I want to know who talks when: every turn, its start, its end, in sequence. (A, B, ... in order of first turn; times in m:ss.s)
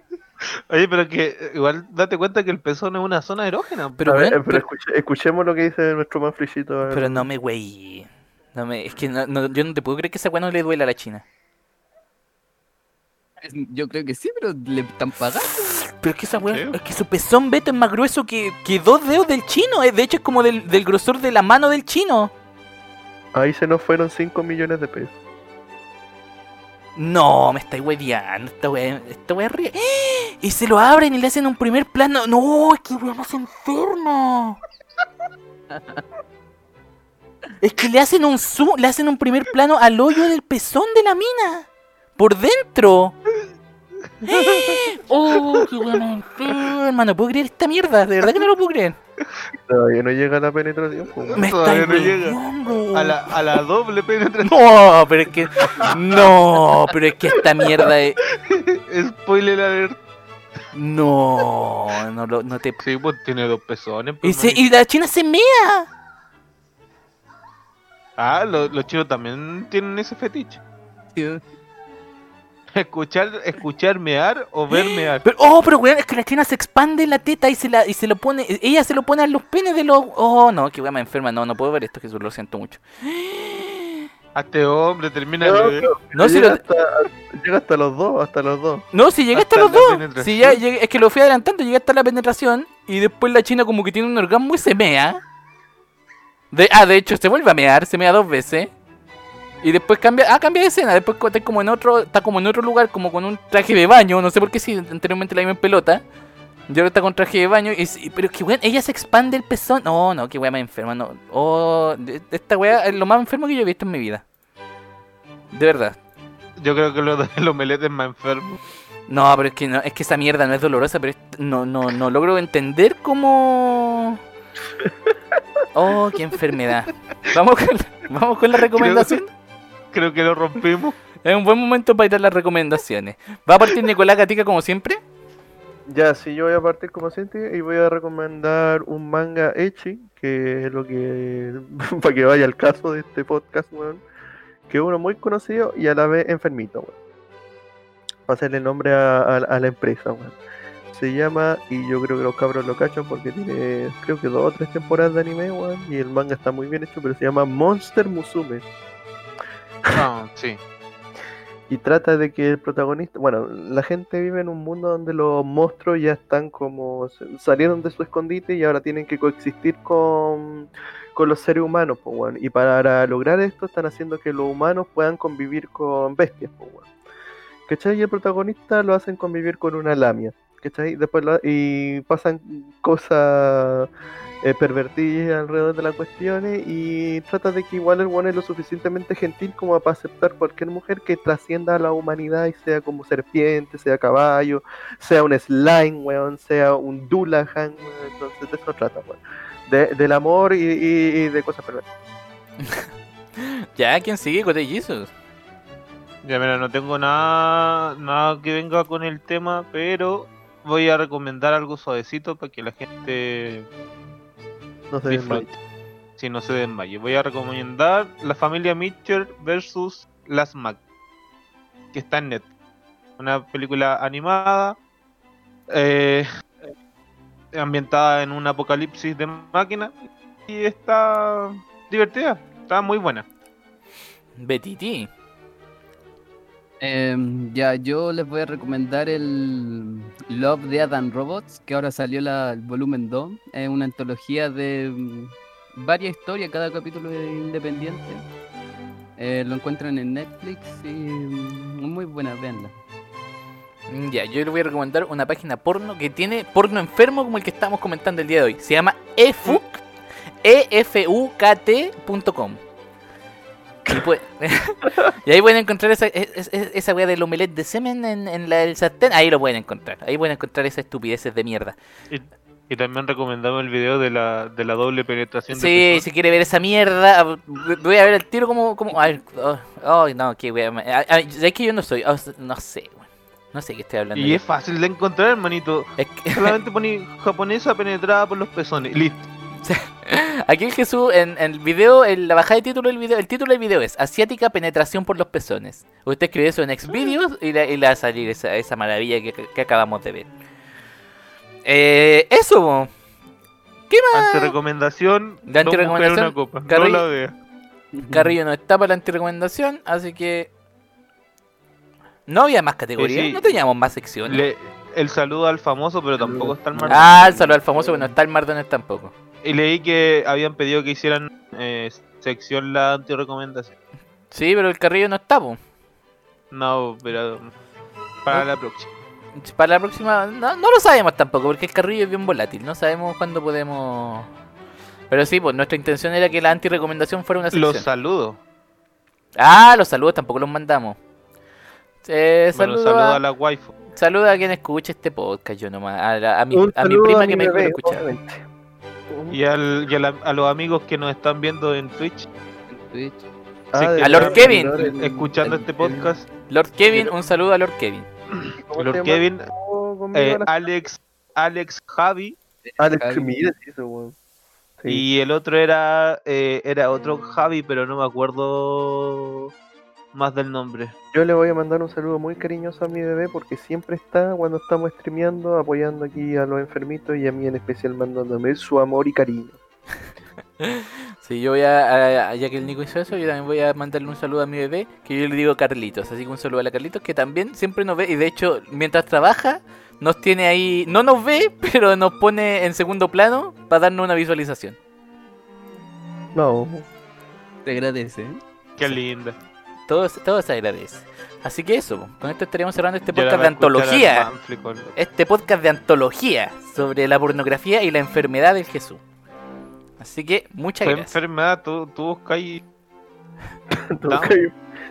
0:00.4-0:04.0 A
0:04.0-0:04.6 B
0:04.0-0:07.3 C
0:06.9-0:11.2 B
0:13.4-0:15.7 D
0:15.9-0:22.3 B
0:23.3-0:25.1 C
0:27.0-0:34.6 B
0:35.7-0:36.0 D
0:37.6-0:43.2 B
0:44.2-0:49.0 B
0:49.5-0:51.4 C
0:51.2-0:52.4 A
0:51.4-0:53.3 B
0:52.9-0:54.6 A
0:54.4-0:58.2 B
0:55.6-0:56.2 A
0:58.3-1:00.0 A
1:00.7-1:02.8 B
1:02.8-1:04.6 A
1:04.2-1:05.9 B
1:08.2-1:10.6 A
1:11.1-1:11.4 D
1:12.7-1:15.2 A
1:14.7-1:24.1 B
1:24.3-1:25.9 A
1:25.4-1:28.8 C
1:26.1-1:26.6 B
1:28.9-1:35.2 B
1:29.3-1:30.6 A
1:36.5-1:38.7 B
1:39.6-1:46.0 B
1:46.7-1:54.2 B
1:55.5-1:56.0 B
1:56.6-1:58.6 A
1:59.1-2:04.2 B
2:05.7-2:09.2 B
2:08.7-2:09.3 A
2:09.9-2:11.0 A
2:11.2-2:15.0 B
2:15.9-2:24.0 C
2:24.7-2:26.9 C
2:28.3-2:30.4 C
2:30.9-2:38.6 C
2:39.9-2:40.6 A
2:41.7-2:56.9 C
2:57.7-3:03.9 C
3:04.4-3:21.8 C
3:22.6-3:25.1 B
3:26.2-3:33.7 A
3:34.9-3:35.5 C
3:35.1-3:35.5 A
3:36.2-3:40.8 A
3:41.9-3:42.5 A
3:43.2-3:44.8 A
3:45.7-3:46.3 A
3:47.5-3:53.2 A
3:54.4-3:55.1 B
3:56.8-4:08.2 D
4:09.2-4:12.7 D
4:13.9-4:19.8 B
4:20.4-4:22.6 B
4:23.9-4:31.8 B
4:32.1-4:36.0 A
4:35.5-4:44.4 B
4:44.1-4:49.3 A
4:46.0-4:46.6 B
4:49.6-5:00.3 B
5:01.6-5:02.9 B
5:03.9-5:04.5 B
5:04.1-5:07.3 A
5:05.4-5:07.0 B
5:07.9-5:08.4 D
5:08.1-5:10.5 B
5:12.3-5:14.4 B
5:13.0-5:13.5 A
5:14.2-5:17.4 A
5:16.2-5:18.0 D
5:16.9-5:19.1 B
5:19.4-5:23.7 A
5:24.3-5:25.6 B
5:26.5-5:27.5 A
5:28.2-5:28.9 A
5:29.4-5:34.3 B
5:35.1-5:37.8 B
5:37.5-5:38.4 A
5:39.4-5:41.0 B
5:42.0-5:43.2 B
5:42.5-5:43.7 A
5:43.9-5:48.1 B
5:46.5-5:48.4 C
5:49.1-5:49.4 C
5:49.3-5:52.3 A
5:52.7-5:53.2 D
5:53.7-5:54.8 C
5:53.8-5:56.3 A
5:54.0-5:54.7 B
5:54.6-5:56.1 D
5:56.5-5:58.1 B
5:58.3-5:59.5 A
5:58.6-6:00.5 C
6:00.1-6:02.4 A
6:02.6-6:03.3 D
6:02.8-6:04.1 C
6:04.8-6:05.0 C
6:04.9-6:09.5 A
6:10.1-6:10.9 A
6:11.1-6:19.6 C
6:20.6-6:34.8 B
6:36.3-6:36.8 C
6:37.6-6:38.9 D
6:38.8-6:39.4 A
6:39.9-6:44.3 B
6:43.1-6:44.9 A
6:44.9-6:49.0 B
6:50.0-6:51.1 B
6:50.8-6:52.6 A
6:53.7-6:54.6 C
6:54.1-6:54.4 A